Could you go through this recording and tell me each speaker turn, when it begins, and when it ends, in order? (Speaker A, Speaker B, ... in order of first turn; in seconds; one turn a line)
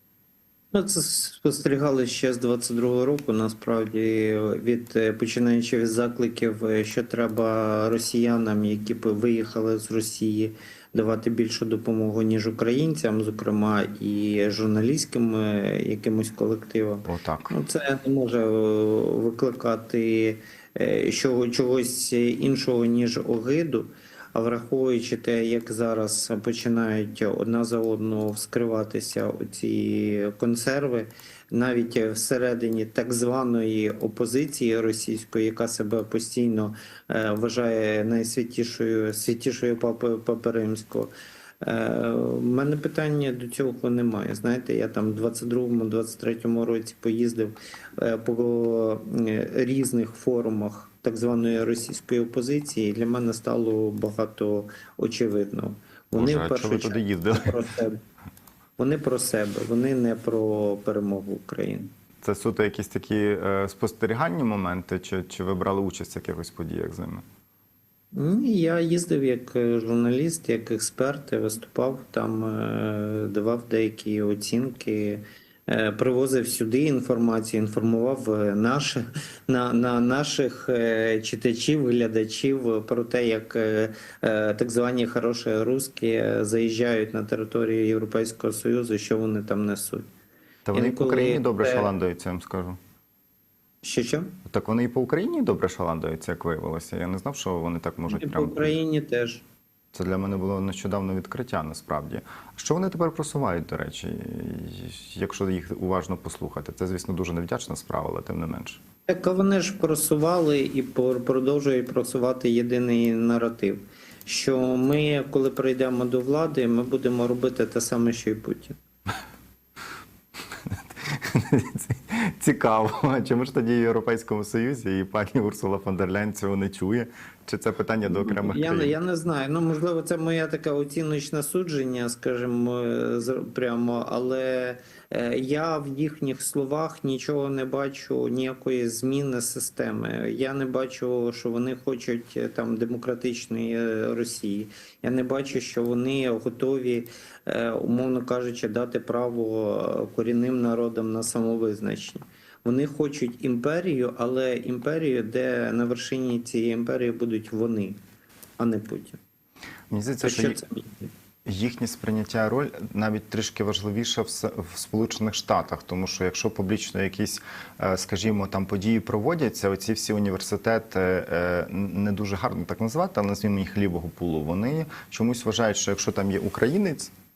Speaker A: 0.7-41.1
Speaker B: 17.1-17.5
Speaker A: 41.6-58.0
Speaker B: 56.2-57.5
Speaker A: 58.8-61.9
Speaker B: 62.2-67.2
Speaker A: 68.1-90.1
Speaker B: 90.7-92.8
Speaker A: 90.7-91.9
Speaker A: 93.8-94.3
Speaker B: 94.5-98.7
Speaker A: 98.1-99.4
Speaker B: 99.9-108.8
Speaker A: 109.1-118.7
Speaker B: 120.7-128.9
Speaker A: 128.1-158.0
Speaker A: 158.6-159.2
Speaker B: 159.9-160.6
Speaker A: 160.2-161.1
Speaker B: 161.5-177.1